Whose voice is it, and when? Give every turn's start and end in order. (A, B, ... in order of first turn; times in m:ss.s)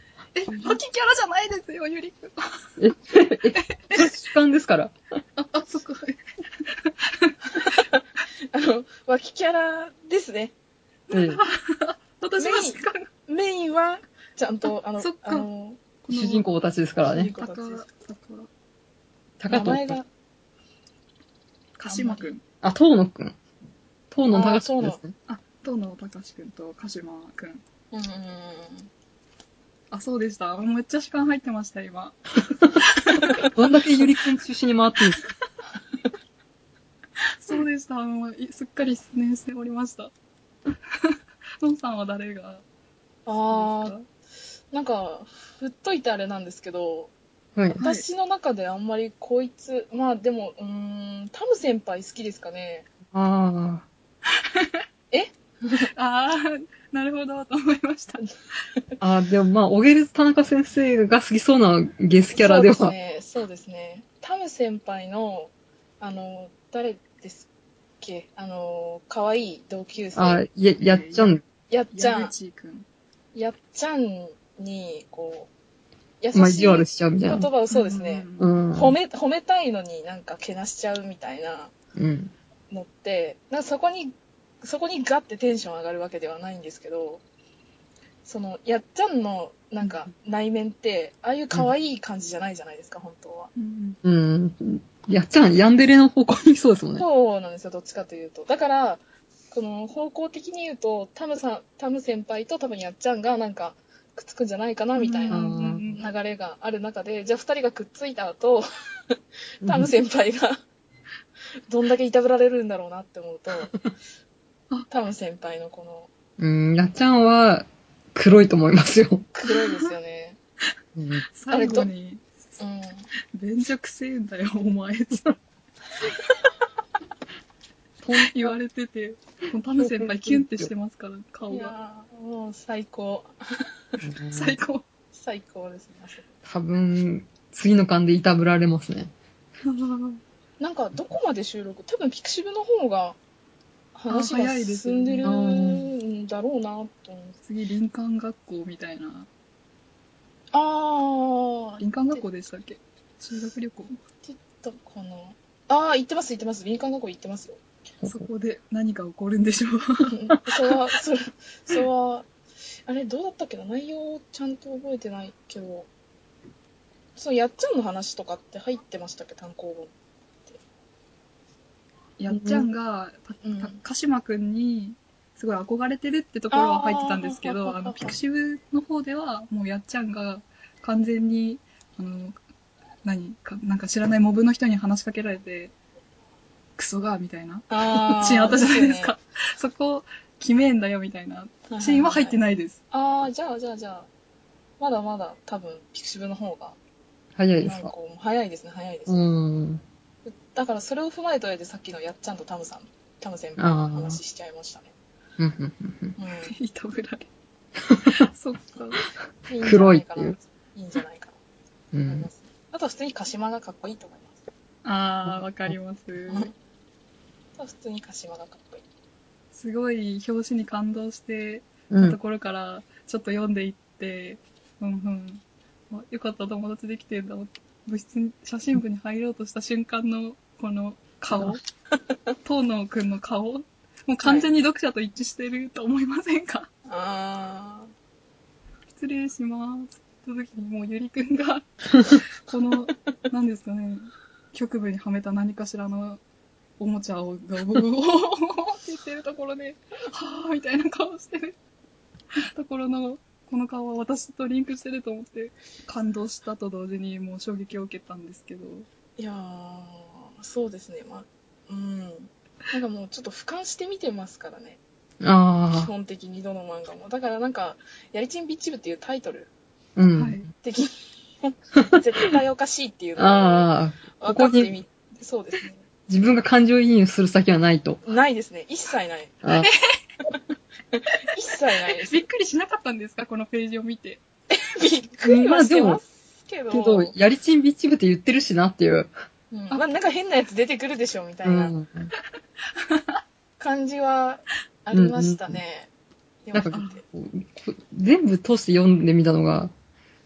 0:00.4-0:02.7 A
0:02.8-0:05.0 B
0:03.6-0:04.1 A
0:05.4-0:07.8 A
0:08.5-0:10.5 C
0:11.1-0:13.1 A
0:11.1-0:11.4 B
0:12.4-0:15.9 C
0:15.0-0:15.5 A
0:16.1-0:16.4 A
0:16.1-0:17.3 B
0:17.0-0:17.9 C
0:17.4-0:18.5 A
0:19.4-0:20.0 B
0:19.5-0:20.1 C
0:21.8-0:22.4 A
0:21.9-0:22.3 C
0:22.6-0:23.4 B
0:24.1-0:25.1 B
0:24.3-0:25.0 C
0:25.3-0:27.6 A
0:27.9-0:28.9 C
0:29.9-0:33.4 A
0:33.6-0:35.2 B
0:37.4-0:40.1 A
0:40.9-0:42.6 A
0:43.3-0:44.0 C
0:43.5-0:44.0 A
0:44.7-0:47.1 C
0:47.7-0:52.9 C
0:53.1-0:53.9 B
0:54.4-0:54.8 A
0:55.1-0:55.9 C
0:55.9-0:58.3 A
0:59.0-1:03.0 B
1:02.4-1:07.5 C
1:08.0-1:10.4 C
1:10.2-1:11.4 B
1:10.8-1:11.4 A
1:11.7-1:12.3 C
1:11.9-1:12.9 A
1:13.3-1:15.5 C
1:16.2-1:21.7 C
1:16.3-1:17.5 B
1:17.7-1:18.6 A
1:18.4-1:19.0 B
1:22.0-1:22.3 B
1:22.7-1:27.2 C
1:28.2-1:33.5 C
1:33.6-1:34.0 A
1:34.0-1:37.1 B
1:37.0-1:50.6 C
1:45.0-1:46.1 A
1:45.3-1:46.0 B
1:49.6-1:49.9 B
1:51.7-1:53.9 C
1:54.9-1:56.1 C
1:56.4-1:59.3 B
1:59.4-2:00.4 C
1:59.5-1:59.9 A
2:01.0-2:01.3 B
2:01.3-2:02.3 A
2:01.5-2:01.9 C
2:02.6-2:03.1 C
2:03.3-2:05.3 A
2:08.0-2:08.6 B
2:08.1-2:11.8 A
2:09.8-2:10.7 B
2:11.5-2:14.0 C
2:14.0-2:14.6 B
2:14.3-2:14.9 A
2:15.1-2:16.3 C
2:16.4-2:19.1 B
2:19.7-2:20.2 A
2:20.6-2:23.2 C
2:24.0-2:27.4 C
2:24.1-2:25.4 A
2:25.2-2:25.9 B
2:27.4-2:29.3 A
2:30.5-2:32.2 C
2:31.8-2:34.0 A
2:34.2-2:37.6 C
2:38.0-2:38.3 B
2:38.0-2:40.2 A
2:40.1-2:42.3 C
2:40.3-2:40.6 B
2:42.9-2:45.9 C
2:47.2-2:49.9 C
2:52.2-3:02.4 A
2:52.3-2:52.6 B
2:53.4-2:53.8 C
2:56.5-2:58.2 C
3:03.0-3:05.7 A
3:06.8-3:12.8 A
3:07.7-3:09.2 C
3:11.7-3:12.4 C
3:12.9-3:14.1 C
3:14.8-3:16.8 C
3:17.4-3:17.9 B
3:17.6-3:19.2 C
3:19.1-3:19.8 B
3:20.2-3:24.9 C
3:23.6-3:24.2 B
3:25.4-3:26.2 B
3:26.2-3:26.6 C
3:26.4-3:27.3 A
3:28.1-3:29.0 A
3:29.5-3:31.4 C
3:29.6-3:30.4 B
3:31.9-3:32.3 B
3:32.1-3:34.3 C
3:34.8-3:36.5 A
3:35.2-3:35.8 B
3:36.3-3:36.5 C
3:37.6-3:38.8 C
3:39.5-3:51.6 A
3:41.9-3:42.2 B
3:52.4-3:56.7 A
3:54.2-3:54.5 C
3:56.9-3:57.9 C
3:59.0-4:06.2 A
4:06.8-4:11.6 A
4:12.5-4:18.9 A
4:19.2-4:24.8 C
4:25.2-4:25.9 B
4:25.8-4:29.5 C
4:30.0-4:30.5 B
4:30.1-4:30.5 A
4:30.6-4:35.8 C
4:33.2-4:34.7 B
4:36.1-4:38.0 B
4:38.0-4:39.3 C
4:39.4-4:39.7 B
4:39.6-4:40.0 A
4:40.9-4:42.3 C
4:42.0-4:44.2 A
4:44.5-4:47.1 C
4:45.2-4:46.0 B
4:46.7-4:49.1 B
4:49.5-4:51.8 C
4:51.4-4:52.1 B
4:52.8-4:53.2 A
4:53.6-4:55.9 C
4:54.9-4:55.6 B
4:56.4-4:57.0 C
4:56.5-4:59.7 B
4:56.7-4:57.0 A